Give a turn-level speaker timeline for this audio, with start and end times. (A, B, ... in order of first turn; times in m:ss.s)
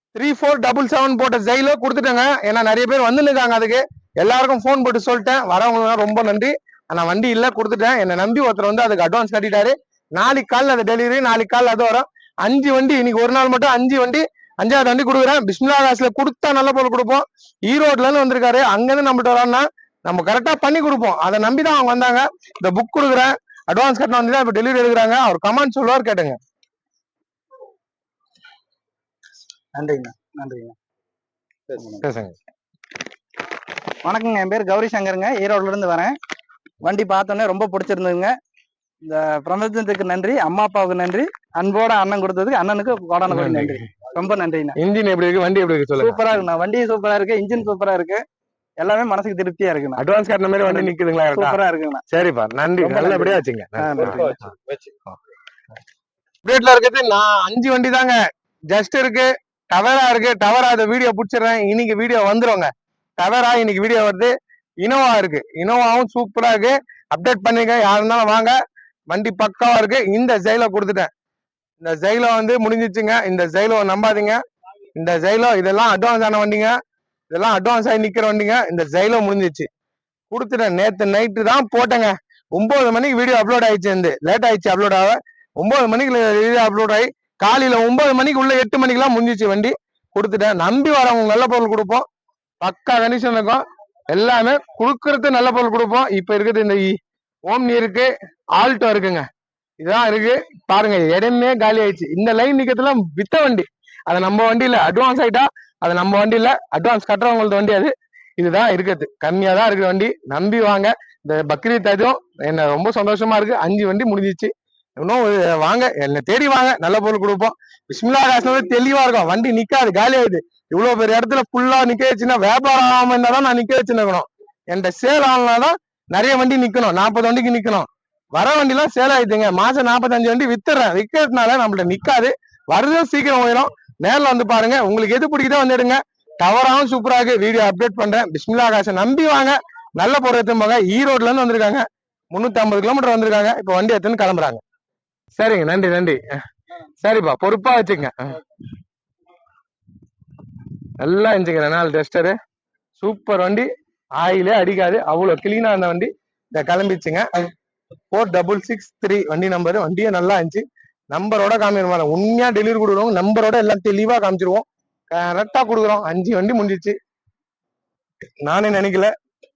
0:00.1-0:26.4 A
0:29.8-0:30.8 B
0:31.7-0:32.0 B
0:32.0-0:32.4 A
0:34.0-0:36.2 B
0:36.8-0:38.3 B
0:39.0-0:44.8 B
0:43.3-0:43.8 A
0:44.8-0:46.2 A
0:46.0-0:48.2 B
0:48.8-0:50.0 B
0:50.0-0:54.6 A
0:50.7-0:52.0 B
0:52.8-0:54.4 B
0:56.4-0:58.2 A
0:58.7-1:08.6 A
1:09.1-1:11.1 A
1:11.8-1:14.4 A
1:15.0-1:16.7 A
1:17.3-1:19.7 A
1:20.3-1:32.0 A
1:32.6-1:39.2 A
1:39.8-2:24.6 A
2:25.4-2:26.2 A
2:27.0-2:28.4 A
2:31.0-2:32.4 A
2:33.0-2:37.3 A
2:38.1-2:47.0 A
2:48.4-2:49.1 A